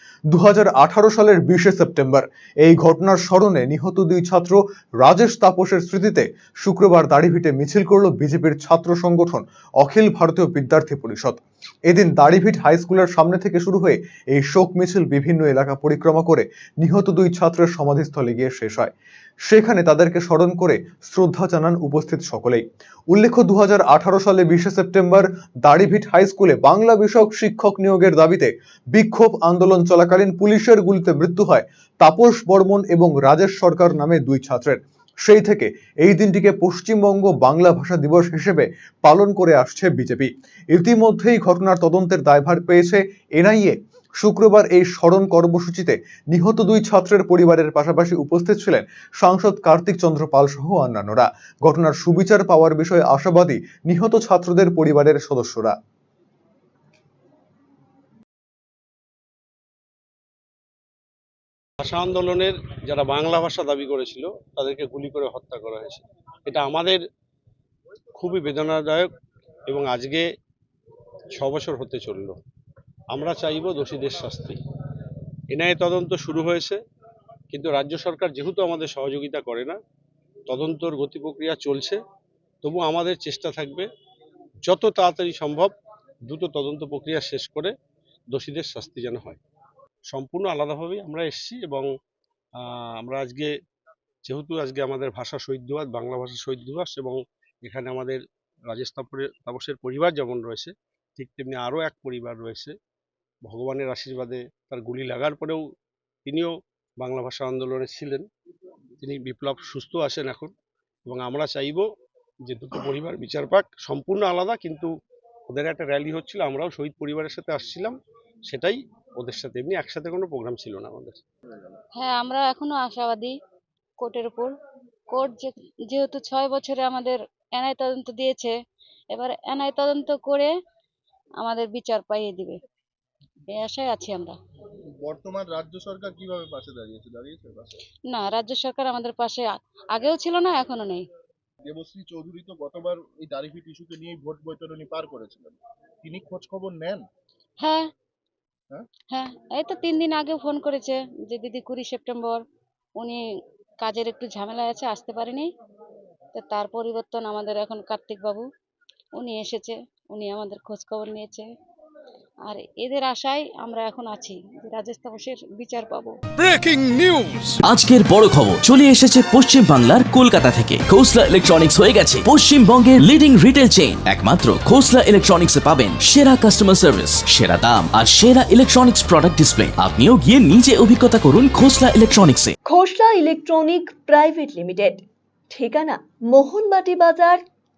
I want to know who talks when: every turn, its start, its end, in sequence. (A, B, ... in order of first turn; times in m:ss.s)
0:00.3-0:18.9 A
0:19.4-0:55.7 A
1:01.8-1:07.0 B
1:08.1-1:09.1 B
1:09.7-1:10.2 B
1:11.3-1:12.4 B
1:13.1-1:14.6 B
1:15.5-1:16.8 B
1:17.5-1:19.8 B
1:20.5-1:22.0 B
1:22.6-1:23.9 B
1:24.6-1:25.7 B
1:26.2-1:27.7 B
1:28.3-1:29.4 B
1:30.1-1:31.9 B
1:32.6-1:33.5 B
1:34.2-1:42.7 B
1:43.4-1:45.6 B
1:46.2-1:48.2 B
1:49.0-1:50.5 B
1:51.0-1:51.8 B
1:52.4-1:54.9 B
1:55.5-1:57.9 B
1:58.5-2:01.2 B
2:02.0-2:03.3 C
2:04.0-2:04.5 C
2:05.1-2:08.5 C
2:09.1-2:10.5 C
2:11.4-2:12.6 C
2:13.5-2:14.4 C
2:15.1-2:17.8 D
2:18.1-2:21.1 C
2:21.7-2:27.0 D
2:27.6-2:27.9 C
2:29.1-2:32.4 C
2:33.8-2:35.5 C
2:36.3-2:38.4 C
2:39.2-2:41.5 C
2:42.5-2:46.1 C
2:47.6-3:02.5 E
3:02.6-3:07.4 F